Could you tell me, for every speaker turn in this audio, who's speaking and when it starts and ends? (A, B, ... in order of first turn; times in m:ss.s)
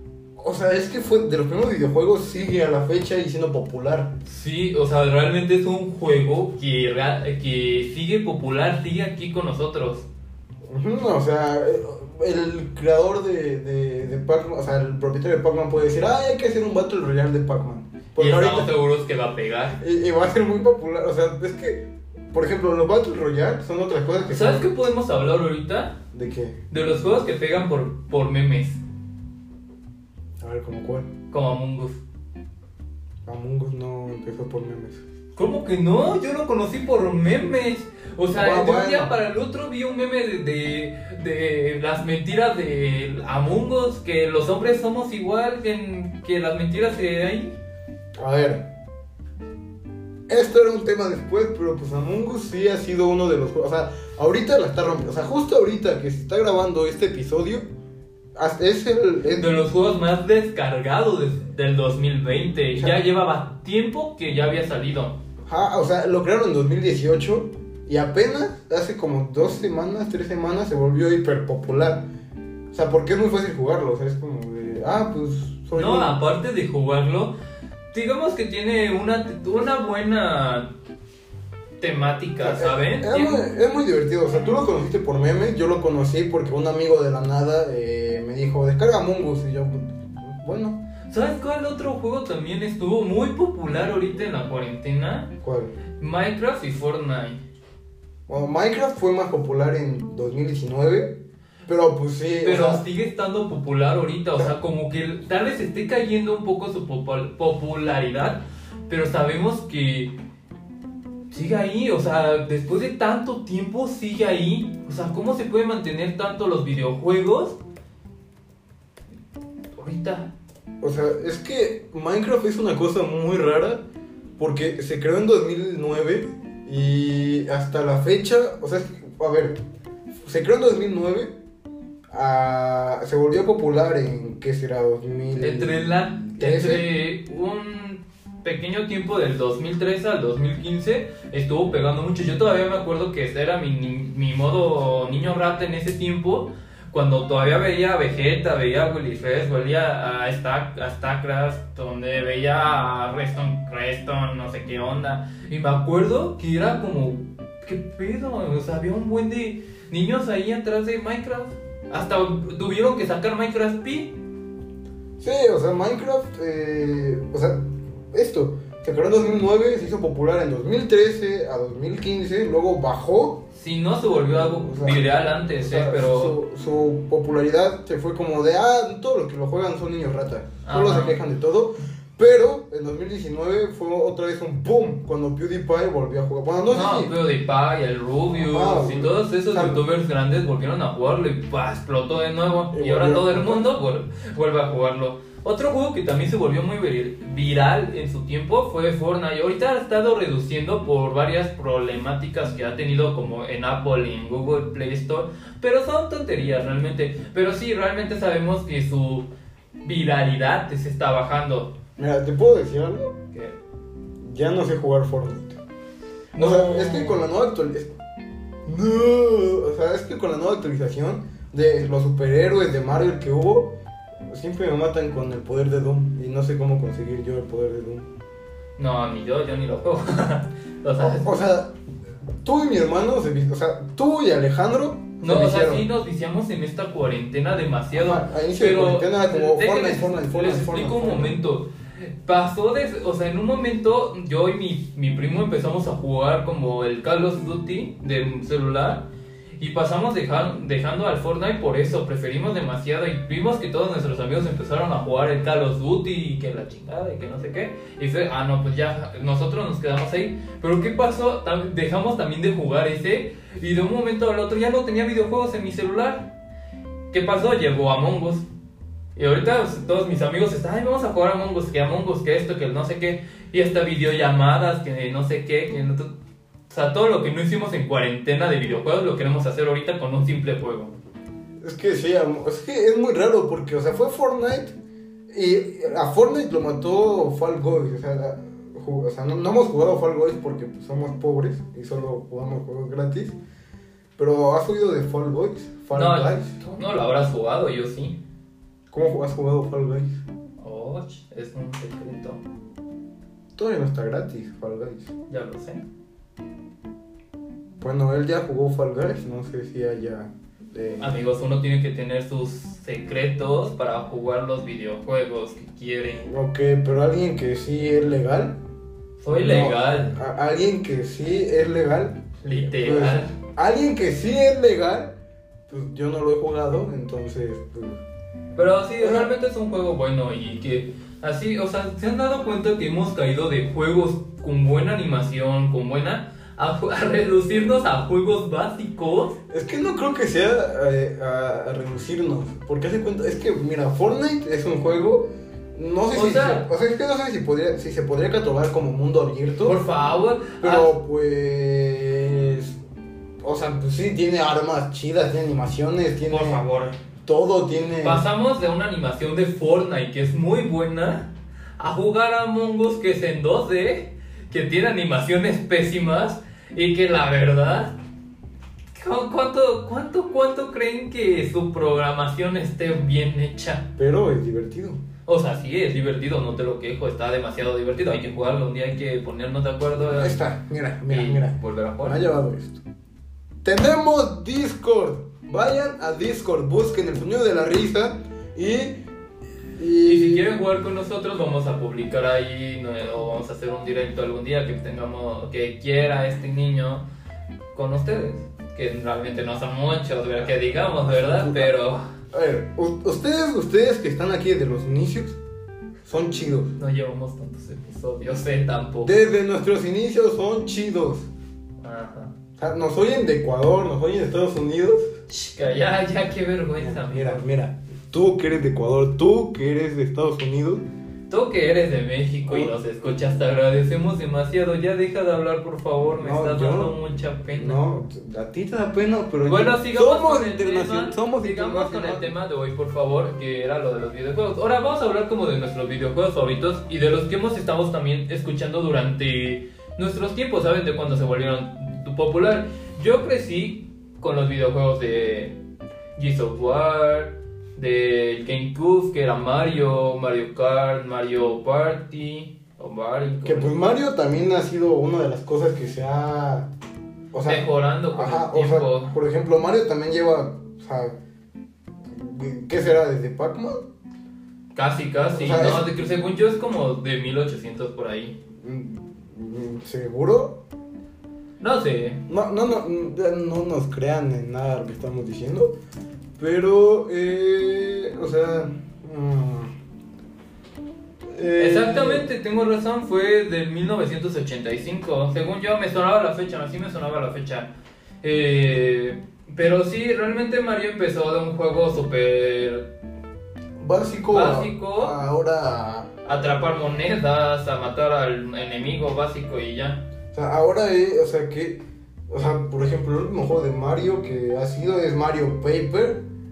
0:00.4-0:04.1 A
0:04.2-0:10.0 B
0:10.7-0:18.7 A
0:18.2-0:19.8 B
0:19.8-0:24.7 A
0:24.3-0:26.0 B
0:26.1-0:26.6 A
0:26.7-0:28.8 B
0:30.4-0:31.1 A
0:31.3-0:32.0 B
0:33.2-0:35.0 A
0:35.3-0:47.6 B
0:38.3-0:39.1 A
0:48.2-0:48.7 A
0:50.3-0:57.6 A
0:58.3-0:59.5 A
0:59.3-1:05.2 B
1:05.4-1:12.0 A
1:12.7-1:16.2 A
1:15.7-1:17.3 B
1:17.9-1:20.7 B
1:21.8-1:23.4 B
1:22.4-1:30.8 A
1:31.1-1:35.3 B
1:35.4-1:35.7 A
1:36.0-1:37.4 B
1:38.3-1:42.8 A
1:42.4-1:50.1 B
1:51.3-1:57.6 B
1:59.7-2:00.3 B
2:00.8-2:03.8 A
2:04.4-2:09.6 A
2:10.2-2:11.3 A
2:12.1-2:16.9 A
2:15.4-2:44.1 B
2:45.2-2:47.6 A
2:48.1-2:53.4 A
2:53.5-2:56.3 B
2:54.6-3:07.1 A
3:00.6-3:01.2 B
3:06.7-3:29.3 B
3:08.3-3:09.8 A
3:12.7-3:13.7 A
3:29.8-3:31.7 B
3:32.0-3:33.1 A
3:34.2-3:35.6 A
3:36.3-3:37.2 B
3:36.4-3:37.9 A
3:38.6-3:43.7 A
3:44.3-3:48.1 A
3:48.8-3:51.3 B
3:51.0-3:51.7 A
3:52.4-3:55.8 A
3:55.2-4:01.7 B
3:57.9-4:01.4 A
4:02.2-4:09.1 B
4:09.6-4:26.3 B
4:27.1-4:28.4 B
4:29.2-4:36.1 B
4:36.7-4:40.9 B
4:41.6-4:44.7 A
4:45.3-4:53.4 A
4:54.2-4:56.6 A
4:55.9-4:58.2 B
4:58.9-5:00.2 A
5:00.6-5:02.4 B
5:03.6-5:05.1 A
5:05.3-5:05.8 B
5:07.8-5:11.2 A
5:11.0-5:16.2 B
5:16.2-5:18.6 A
5:19.2-5:20.2 B
5:19.3-5:25.1 A
5:22.4-5:23.3 B
5:25.7-5:28.0 A
5:28.6-5:39.4 B
5:29.0-5:29.3 A
5:39.5-5:49.8 A
5:46.1-5:46.7 B
5:49.6-5:50.9 B
5:50.6-5:52.8 A
5:53.4-5:56.6 A
5:56.3-5:57.0 B
5:57.2-5:58.2 A
5:58.0-6:08.0 B
6:08.9-6:13.9 B
6:14.0-6:15.0 A
6:15.2-6:20.4 B
6:20.1-6:22.8 A
6:21.1-6:22.2 B
6:23.6-6:29.0 A
6:29.8-6:30.5 A
6:30.0-6:37.0 B
6:37.7-6:42.0 B
6:41.0-6:41.8 A
6:42.3-6:45.4 A
6:46.0-6:46.7 A
6:46.8-6:49.2 B
6:49.0-6:51.3 A
6:51.8-6:52.3 B
6:52.6-6:55.1 A
6:55.3-6:57.4 B
6:56.8-7:00.8 A
7:01.3-7:07.8 B
7:02.4-7:02.8 A
7:06.2-7:07.0 A
7:07.5-7:12.2 A
7:09.4-7:25.6 B
7:26.2-7:33.8 B
7:33.4-7:36.7 A
7:37.3-7:41.2 A
7:37.4-7:39.2 B
7:42.1-7:43.8 A
7:44.7-7:48.4 B
7:45.3-7:45.9 A
7:48.6-7:50.6 A
7:51.6-7:52.2 B
7:52.3-7:55.7 A
7:56.4-7:59.7 A
8:01.3-8:02.3 A
8:01.6-8:07.7 B
8:08.2-8:12.9 B
8:13.8-8:16.1 A
8:14.3-8:15.2 B
8:16.2-8:20.0 B
8:20.3-8:26.2 A